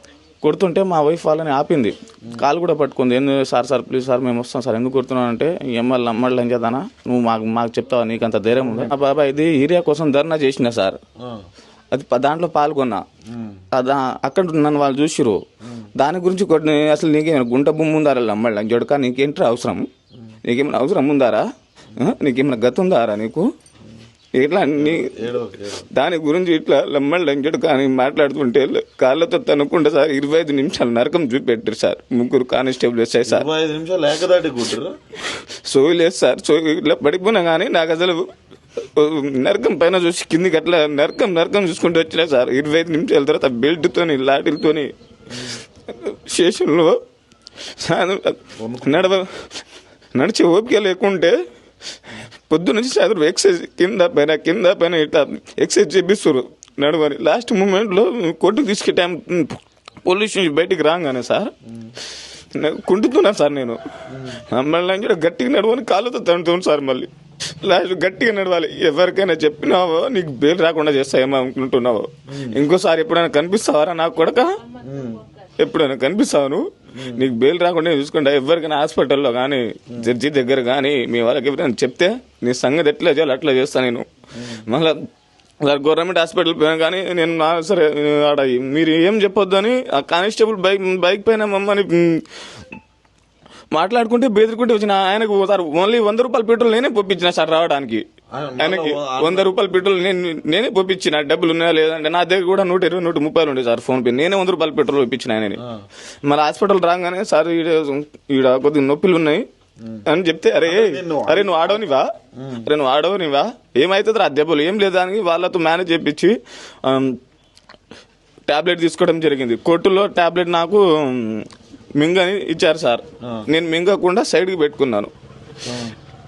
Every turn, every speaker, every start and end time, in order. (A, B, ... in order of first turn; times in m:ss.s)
0:00.4-0:11.0 A
0:08.5-0:08.9 B
0:11.2-0:11.5 B
0:11.9-0:13.0 A
0:13.3-0:13.6 B
0:13.7-0:15.4 A
0:15.6-0:15.9 B
0:16.0-0:19.9 A
0:20.5-0:23.5 A
0:24.4-0:25.1 A
0:24.8-0:25.9 B
0:25.9-0:33.5 A
0:33.3-0:34.9 B
0:35.3-0:44.9 A
0:45.3-0:45.6 B
0:45.9-0:47.0 A
0:47.7-0:49.5 A
0:48.6-0:49.2 B
0:50.2-0:51.4 A
0:52.5-1:01.5 A
1:02.5-1:03.8 A
1:04.1-1:04.4 B
1:04.3-1:07.1 A
1:07.6-1:14.6 A
1:12.3-1:12.6 B
1:14.8-1:15.2 B
1:15.6-1:25.0 A
1:16.9-1:17.3 B
1:24.4-1:24.7 B
1:25.6-1:32.3 A
1:33.7-1:38.0 A
1:38.3-1:39.5 B
1:38.6-1:45.6 A
1:46.2-1:49.5 A
1:50.1-1:52.1 A
1:50.6-1:51.8 B
1:52.4-1:52.7 B
1:52.6-1:57.2 A
1:58.5-2:05.1 A
2:05.7-2:05.9 B